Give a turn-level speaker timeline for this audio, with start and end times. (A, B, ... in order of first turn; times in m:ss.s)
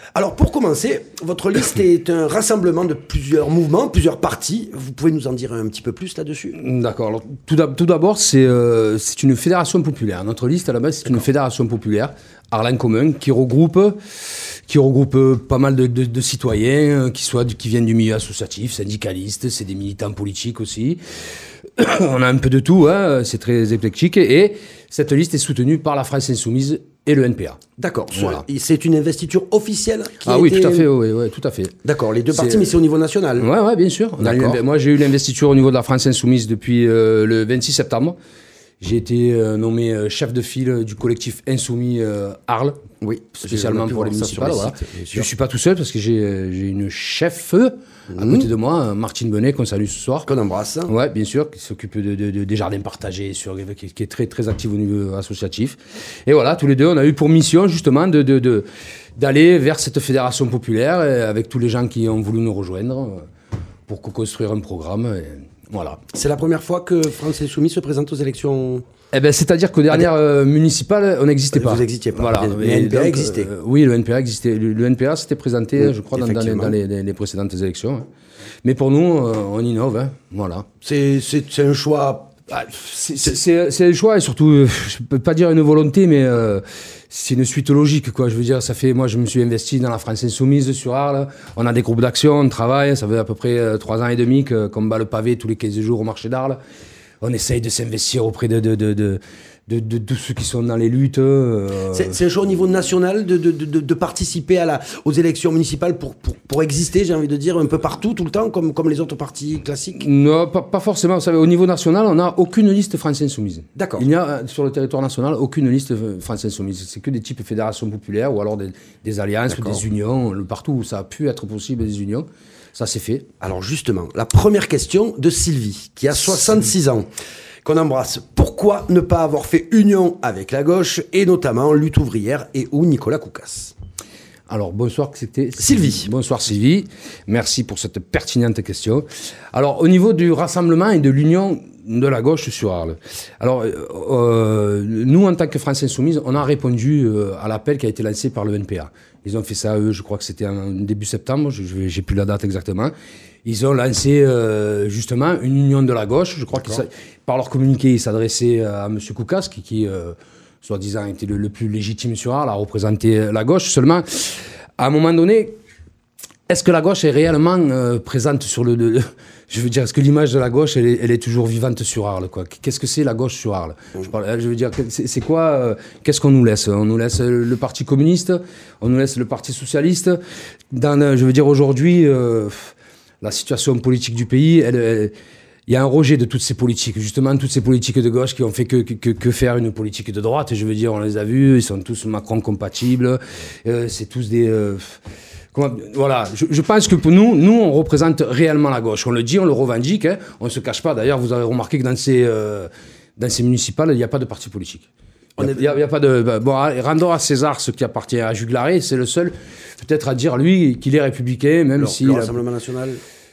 0:00.2-0:06.6 A
0:06.5-0:14.0 B
0:14.7-0:27.6 B
0:27.8-0:30.9 A
0:28.2-0:28.4 B
0:30.2-0:31.8 B
0:31.8-0:33.5 A
0:32.3-0:32.7 B
0:33.4-0:38.2 B
0:34.2-0:34.6 A
0:38.8-0:42.8 B
0:43.0-0:45.3 A
0:43.4-0:50.3 B
0:48.1-0:48.5 A
0:50.3-0:50.9 A
0:50.9-0:58.7 B
0:59.2-1:03.3 B
1:03.9-1:06.0 B
1:06.1-1:08.8 A
1:09.1-1:18.1 B
1:11.5-1:13.5 A
1:15.8-1:16.8 A
1:18.6-1:20.7 B
1:20.8-1:22.4 A
1:22.5-1:36.6 B
1:37.2-1:42.2 B
1:41.9-1:50.0 A
1:50.0-2:03.3 B
1:53.8-1:54.1 A
1:59.5-1:59.8 A
2:03.4-2:07.1 A
2:07.6-2:13.7 A
2:14.5-2:32.9 B
2:15.6-2:16.1 A
2:33.4-2:45.6 B
2:36.6-2:36.8 A
2:46.5-3:00.2 B
3:00.7-3:05.1 B
3:05.7-3:15.0 B
3:15.5-3:32.4 B
3:25.4-3:25.7 A
3:31.8-3:33.0 A